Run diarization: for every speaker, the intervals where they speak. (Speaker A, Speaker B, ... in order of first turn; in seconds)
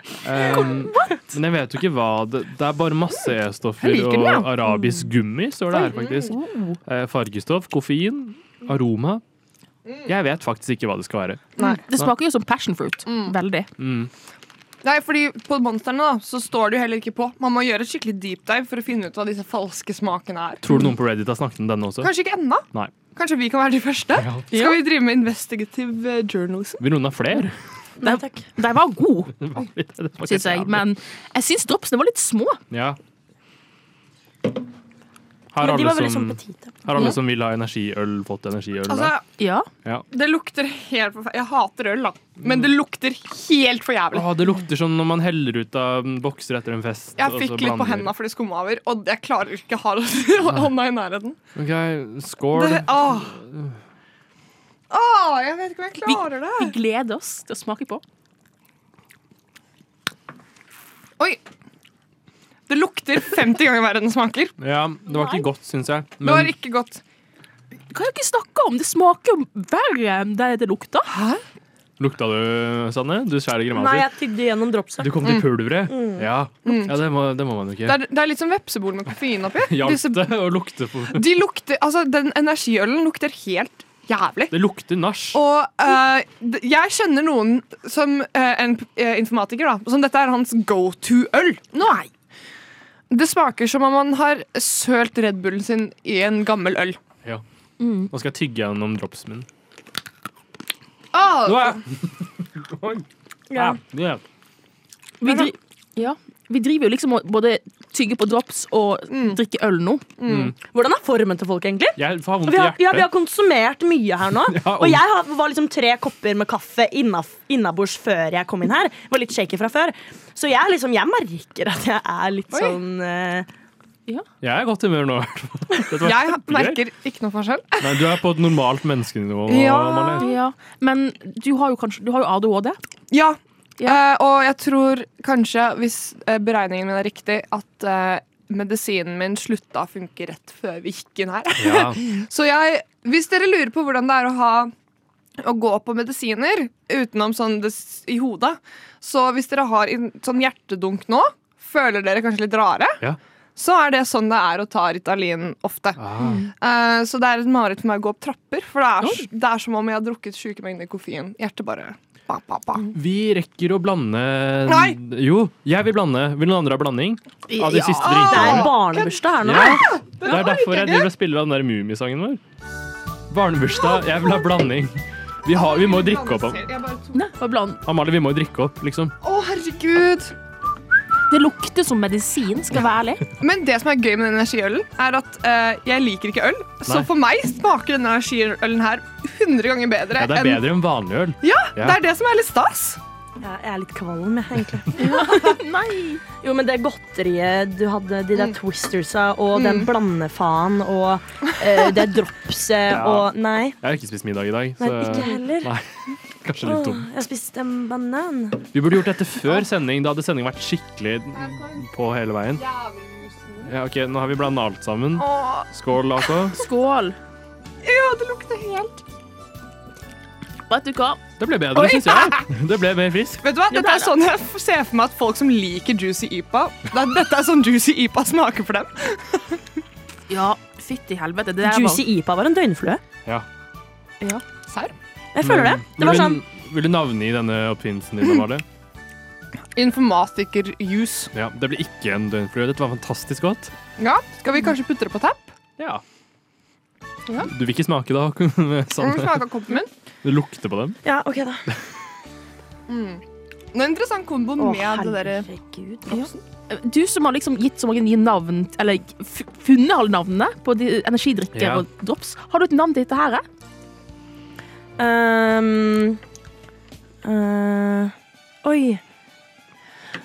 Speaker A: 0.2-9.2, 10.1-12.1, 13.8-14.1, 20.6-22.1, 24.1-24.6, 26.8-27.6, 29.4-30.9, 32.7-33.0, 35.5-39.1, 44.1-48.1, 51.5-53.8, 64.6-66.5, 72.0-74.1, 75.0-78.0, 79.6-81.3, 84.5-85.4, 98.1-99.5, 101.4-104.2, 110.2-110.5, 112.0-113.1, 114.4-115.0, 124.4-126.8, 127.8-130.3, 141.6-142.0, 156.0-156.4, 162.9-168.7, 169.4-172.4, 173.3-176.7, 177.8-179.1, 190.1-192.0, 202.9-205.9, 206.4-207.1, 208.7-212.6, 213.6-216.6, 221.4-223.4, 235.4-238.6, 241.3-243.7, 247.4-249.5, 250.2-251.0, 261.5-261.9
Speaker B: 0.4-1.3, 6.3-6.8, 11.6-13.7, 24.5-24.8, 28.0-29.4, 30.2-32.6, 39.4-39.7, 56.0-58.0, 67.9-71.1, 97.8-98.1, 105.2-110.0, 130.2-132.8, 159.0-159.3, 167.5-168.5, 177.1-177.8, 181.3-183.2, 195.0-196.2, 216.5-217.2, 220.7-221.2, 223.7-224.2, 230.3-232.0, 256.1-263.4
Speaker C: 3.9-4.4, 5.7-6.4, 11.6-11.8, 13.1-13.3, 14.8-20.6, 22.0-26.9, 38.9-39.2, 40.1-44.3, 47.2-51.4, 52.5-53.4, 54.9-56.7, 62.7-64.5, 66.2-67.0, 71.1-71.4, 76.7-77.0, 77.8-80.3, 81.1-84.5, 85.3-92.1, 93.1-97.0, 101.1-101.8, 105.2-105.5, 109.1-109.4, 110.2-110.5, 126.0-128.1, 129.5-130.3, 133.1-144.7, 145.4-153.0, 153.6-162.9, 164.7-165.0, 168.0-171.1, 175.5-177.3, 179.2-180.3, 183.4-190.6, 191.4-193.0, 199.5-199.9, 211.3-211.8, 212.5-213.7, 215.2-215.7, 217.8-219.0, 221.7-222.4, 223.4-229.6, 234.7-234.9, 239.7-241.3, 244.0-245.5, 249.0-249.9, 252.9-255.5
Speaker D: 28.0-28.3, 35.6-36.9, 73.7-75.2, 75.9-76.3, 103.5-103.8, 110.6-123.5, 168.2-169.9, 193.4-195.6, 196.4-203.8, 204.8-205.7, 206.6-208.6, 231.6-233.0, 235.3-236.4, 251.0-251.6, 254.6-256.3, 265.0-266.2, 267.2-269.0